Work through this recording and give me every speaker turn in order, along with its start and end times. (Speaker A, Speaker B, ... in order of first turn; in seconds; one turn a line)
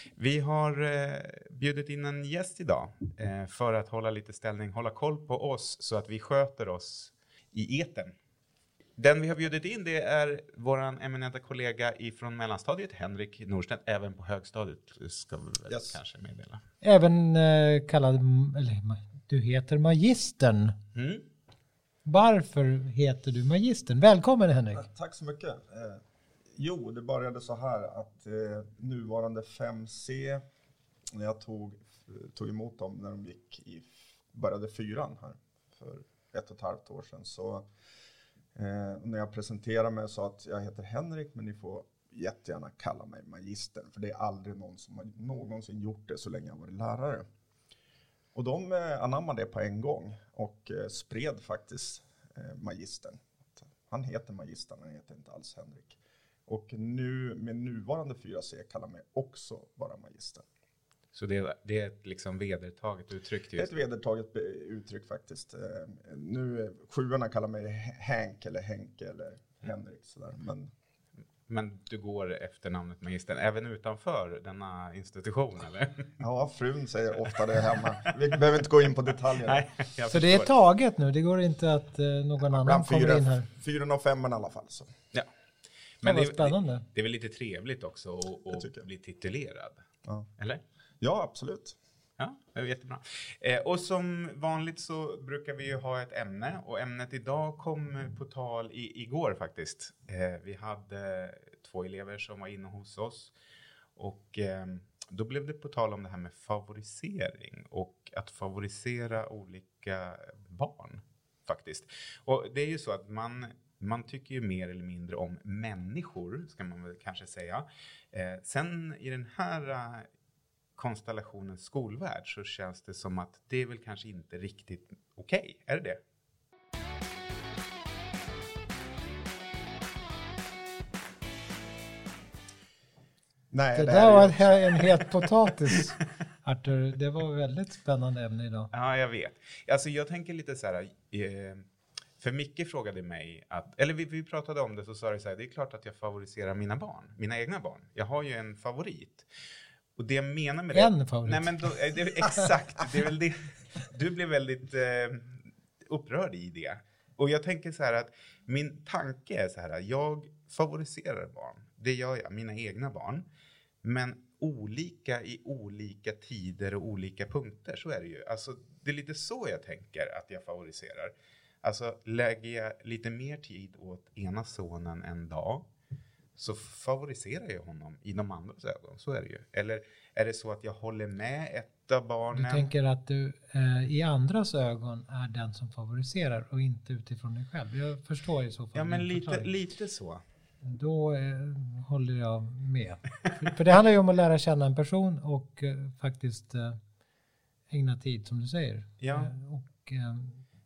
Speaker A: 0.2-8.2
Speaker A: 9.0-16.6
Speaker B: 15.7-16.0
Speaker C: 16.8-20.8
Speaker A: 20.9-21.2
Speaker C: 22.1-24.9
Speaker B: 24.7-30.4
Speaker B: 31.1-37.7
Speaker B: 38.5-47.3
Speaker B: 48.3-60.5
Speaker A: 61.1-63.7
Speaker B: 63.6-70.7
Speaker A: 71.5-76.1
Speaker B: 76.2-79.7
Speaker A: 79.4-80.5
Speaker C: 80.1-83.5
Speaker B: 82.5-84.9
Speaker A: 86.0-89.8
Speaker C: 86.0-86.9
Speaker B: 88.5-88.8
Speaker B: 91.0-91.8
Speaker A: 92.2-103.3
Speaker A: 104.0-120.1
Speaker A: 120.8-126.0
Speaker B: 133.5-135.1
Speaker C: 133.8-138.7
Speaker A: 138.7-141.7
Speaker A: 142.2-149.3
Speaker A: 150.0-163.2
Speaker C: 150.7-151.7
Speaker A: 163.8-175.7
Speaker A: 176.4-182.7
Speaker C: 182.3-189.5
Speaker A: 188.7-190.2
Speaker C: 190.6-196.8
Speaker C: 197.7-200.4
Speaker A: 199.0-199.3